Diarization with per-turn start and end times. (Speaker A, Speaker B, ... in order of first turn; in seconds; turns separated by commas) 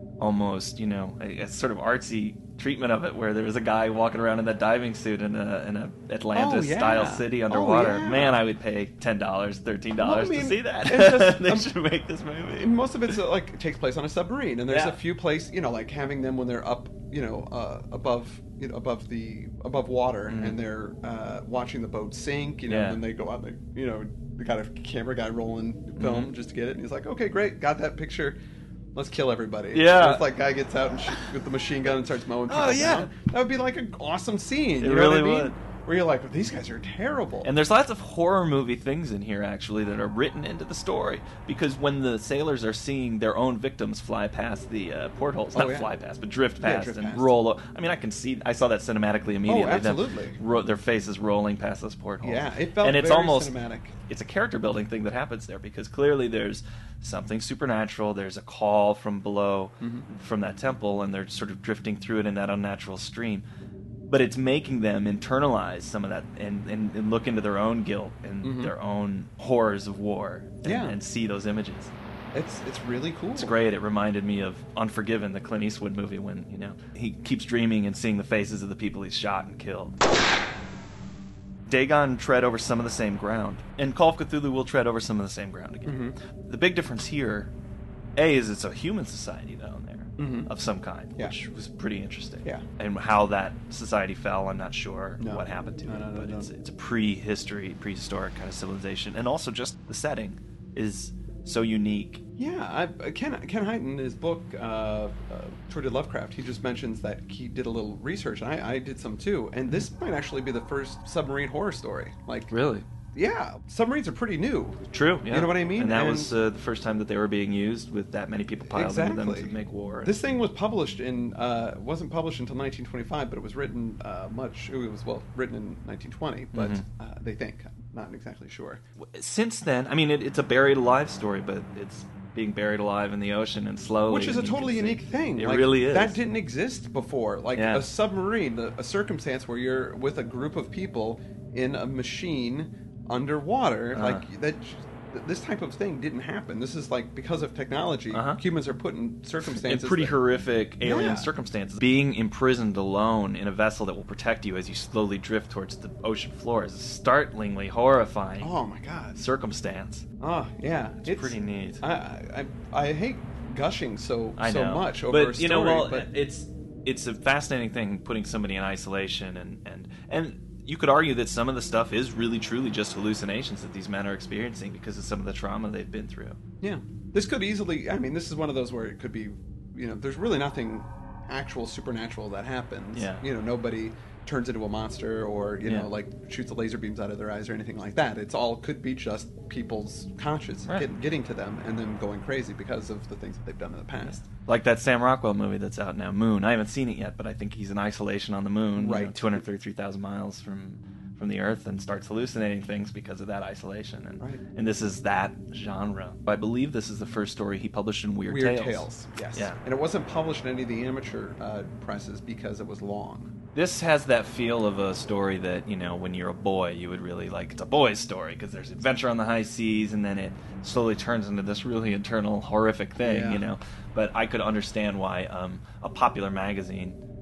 Speaker A: 0.2-12.7, Speaker B: 6.3-8.4, Speaker B: 10.0-11.7, Speaker B: 12.6-28.4, Speaker A: 14.7-15.0, Speaker A: 20.3-20.6, Speaker A: 22.7-23.0, Speaker A: 26.0-26.3, Speaker B: 28.9-37.5, Speaker A: 29.7-30.3, Speaker A: 32.5-33.1, Speaker A: 34.8-35.5, Speaker A: 37.4-53.5, Speaker B: 45.5-45.9, Speaker B: 46.6-47.3, Speaker B: 49.5-50.4, Speaker B: 52.2-53.9, Speaker A: 54.1-63.5, Speaker B: 59.8-60.1, Speaker A: 64.1-71.9, Speaker B: 68.4-68.7, Speaker B: 70.6-71.0, Speaker B: 72.3-73.6, Speaker A: 73.4-80.0, Speaker A: 81.7-87.5, Speaker B: 85.9-86.2, Speaker A: 88.2-102.2, Speaker B: 90.2-90.5, Speaker B: 95.2-96.5, Speaker B: 102.4-112.5, Speaker A: 112.5-112.9, Speaker B: 113.1-116.3, Speaker A: 114.9-120.1, Speaker B: 118.7-128.8, Speaker A: 126.5-126.8, Speaker A: 129.0-136.2, Speaker B: 134.1-150.2, Speaker A: 137.6-137.8, Speaker A: 143.9-144.2, Speaker A: 148.1-148.4, Speaker A: 149.4-158.5, Speaker B: 150.8-151.3, Speaker B: 158.4-159.2, Speaker A: 159.2-160.1, Speaker B: 160.2-166.1, Speaker A: 161.0-161.8, Speaker A: 164.4-176.4, Speaker B: 176.6-194.3, Speaker A: 182.9-183.2, Speaker A: 185.7-185.9, Speaker A: 194.0-209.6, Speaker B: 198.8-199.4, Speaker B: 208.3-213.3, Speaker A: 213.5-227.0, Speaker B: 223.0-223.4